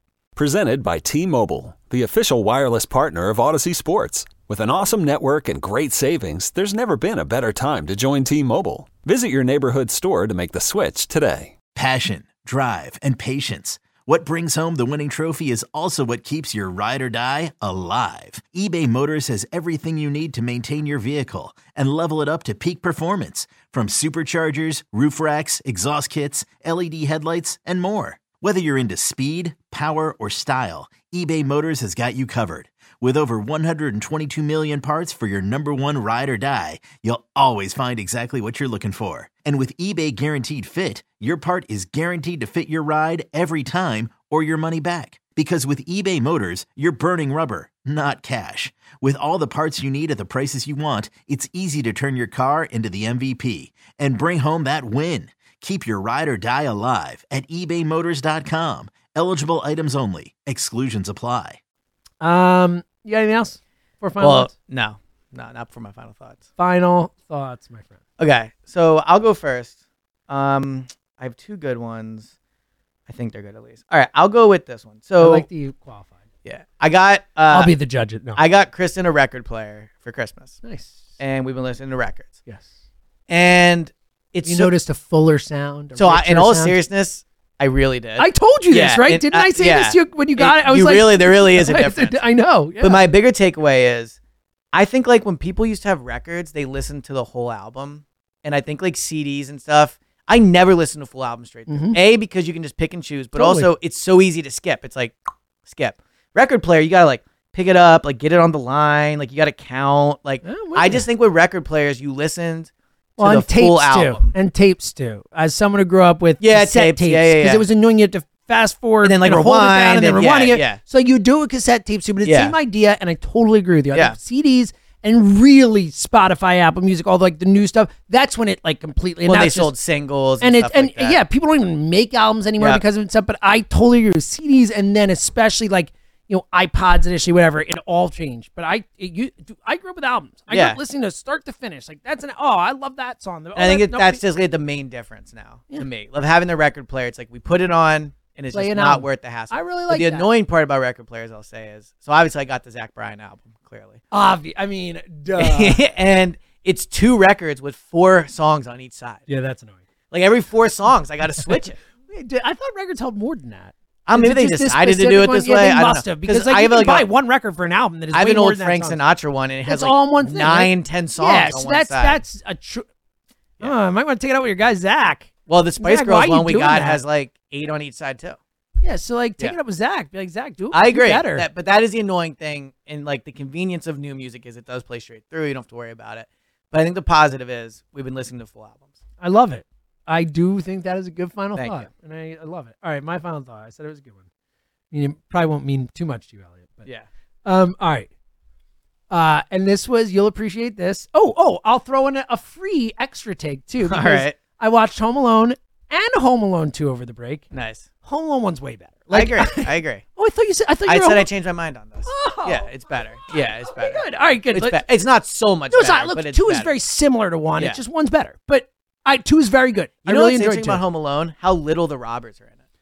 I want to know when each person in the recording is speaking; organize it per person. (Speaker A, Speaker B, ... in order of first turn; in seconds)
Speaker A: 0.3-11.6
Speaker B: 11.7-61.6
Speaker C: 62.2-64.5, 66.6-68.0, 75.2-76.1, 77.5-78.4, 80.6-81.1, 84.4-86.8, 88.2-93.0, 101.7-102.0, 103.3-103.7, 110.4-111.1, 113.2-129.7, 130.4-144.2, 148.5-150.3, 154.1-155.8, 159.3-159.8, 161.4-169.0, 169.7-172.8, 173.6-177.0, 178.8-181.5, 189.2-194.2, 194.9-196.8, 197.4-198.1, 199.1-207.5, 208.0-211.3, 212.1-212.7, 213.7-214.8, 215.7-220.8
Speaker D: 64.2-66.4, 68.2-72.3, 73.1-75.5, 76.4-77.7, 78.3-80.6, 81.2-82.3, 83.3-84.7, 86.0-92.2, 92.8-94.2, 94.7-114.3, 116.4-117.6, 119.0-120.8, 122.2-122.5, 129.2-131.2, 140.5-140.8, 143.5-154.0, 155.4-159.2, 160.1-161.8, 164.1-167.1, 168.1-172.2, 175.5-178.4, 180.7-188.9, 191.6-191.9, 203.8-204.4, 207.5-207.9, 209.1-210.0, 210.9-216.7, 220.0-222.6